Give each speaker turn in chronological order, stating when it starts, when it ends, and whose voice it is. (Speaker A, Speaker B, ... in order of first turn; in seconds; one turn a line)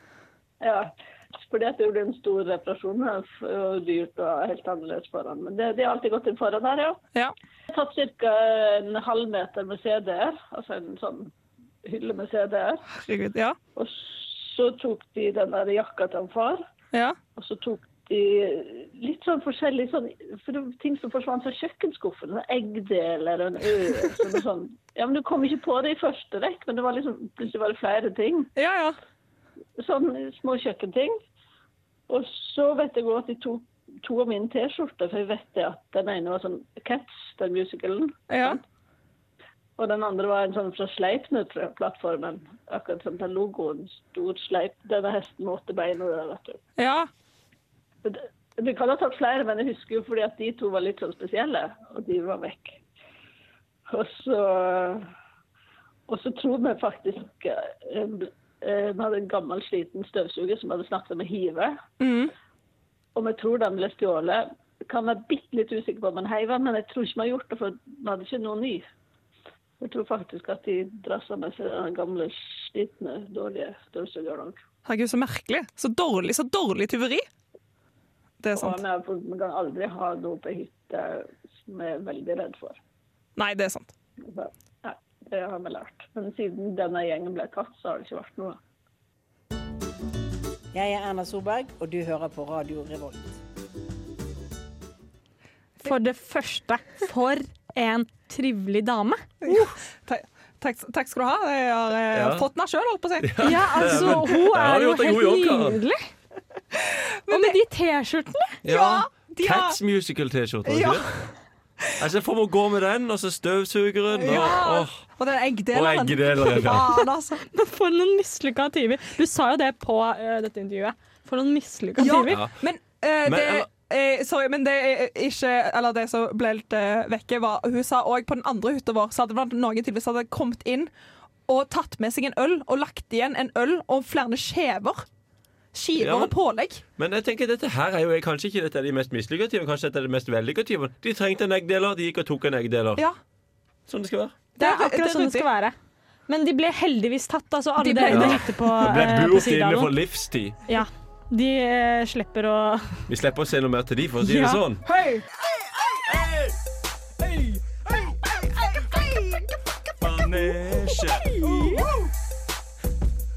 Speaker A: 0.6-7.0
Speaker A: 7.7-11.3
Speaker A: 11.8-12.8
Speaker B: 12.9-13.6
Speaker A: 13.7-16.6
Speaker A: 17.4-28.5
Speaker B: 28.6-29.0
Speaker A: 29.8-31.1
Speaker A: 32.1-38.6
Speaker B: 38.3-38.6
Speaker A: 39.8-46.6
Speaker B: 46.8-47.1
Speaker A: 48.0-52.8
Speaker A: 53.9-55.1
Speaker A: 56.1-61.8
Speaker B: 62.0-62.3
Speaker A: 63.1-68.8
Speaker A: 69.8-74.6
Speaker B: 74.8-77.2
Speaker B: 78.4-78.8
Speaker A: 78.5-82.8
Speaker B: 83.4-83.9
Speaker A: 84.2-88.6
Speaker C: 90.7-93.4
Speaker D: 95.8-99.7
Speaker B: 99.4-104.2
Speaker E: 102.1-102.5
Speaker E: 103.2-105.8
Speaker D: 103.4-106.0
Speaker B: 106.7-107.6
Speaker D: 107.3-108.5
Speaker E: 108.6-111.1
Speaker B: 108.7-109.8
Speaker B: 110.7-111.3
Speaker E: 112.0-115.0
Speaker B: 114.2-117.4
Speaker E: 115.7-117.0
Speaker D: 117.4-122.4
Speaker B: 122.0-130.9
Speaker E: 123.2-123.7
Speaker B: 131.5-135.1
Speaker B: 135.7-136.8
Speaker E: 136.0-136.3
Speaker E: 137.0-143.0
Speaker E: 143.9-144.3
Speaker B: 144.6-145.5
Speaker D: 144.6-145.7
Speaker D: 146.3-150.0
Speaker B: 147.8-148.5
Speaker E: 148.1-150.6
Speaker D: 150.7-153.0
Speaker E: 153.1-154.8
Speaker D: 154.3-154.6
Speaker B: 154.8-155.2
Speaker E: 156.1-156.5
Speaker B: 158.0-159.5
Speaker E: 160.0-161.4
Speaker B: 160.2-160.5
Speaker D: 161.2-161.8
Speaker B: 161.3-162.1